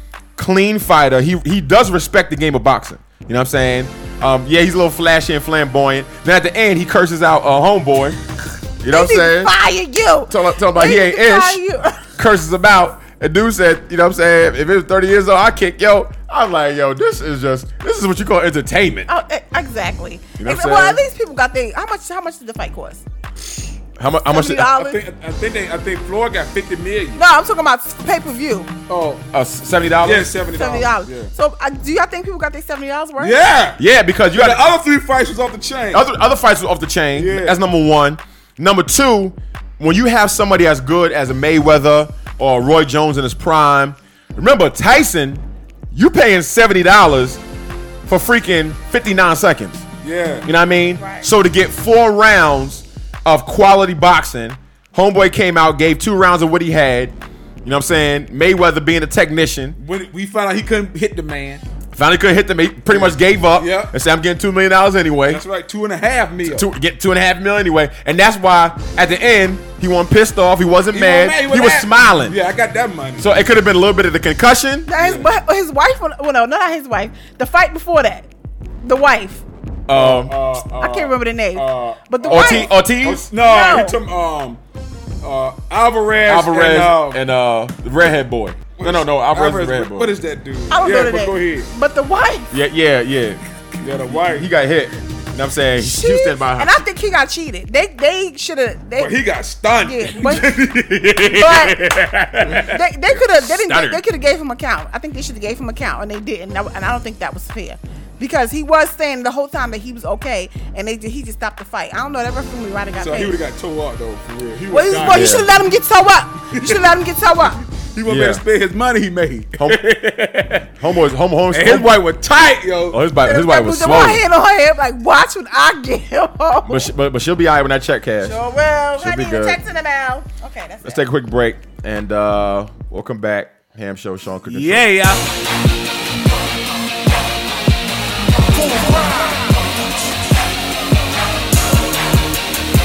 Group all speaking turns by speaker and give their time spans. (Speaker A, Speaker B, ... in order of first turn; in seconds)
Speaker A: 0.4-8.2, 8.8-9.5, 10.3-11.6, 12.2-19.1, 20.4-21.0, 24.0-24.8, 29.3-30.3, 33.8-34.6, 35.9-47.4, 48.1-49.9, 50.5-59.8, 61.9-65.4, 66.4-72.4, 73.2-74.9, 79.9-80.4, 82.2-83.2, 86.2-90.2, 92.5-93.4, 94.1-96.8, 103.1-104.0, 115.0-115.5, 118.1-118.4, 119.6-119.8, 120.8-122.0, 122.9-124.2, 126.7-128.4, 128.9-129.6, 130.8-134.9
Speaker B: 8.9-12.1, 19.1-23.0, 24.2-25.0, 27.1-28.7, 30.5-33.4, 51.0-51.3, 74.9-78.3, 78.8-79.4, 80.7-82.7, 83.4-84.0, 90.7-92.5, 95.8-99.2, 99.8-100.5, 101.3-101.8, 102.6-113.4, 114.7-117.6, 123.2-126.9, 128.2-131.1
Speaker C: 24.7-27.2, 28.9-29.2, 30.0-31.3, 33.2-36.0, 37.1-37.6, 50.0-50.5, 59.8-61.6, 62.9-63.9, 65.3-66.7, 70.9-73.4, 74.9-75.3, 79.9-84.6, 85.2-87.2, 88.8-91.7, 93.8-94.5, 99.0-102.7, 113.0-115.4, 116.5-116.9, 117.7-120.7, 121.5-123.0, 134.5-135.2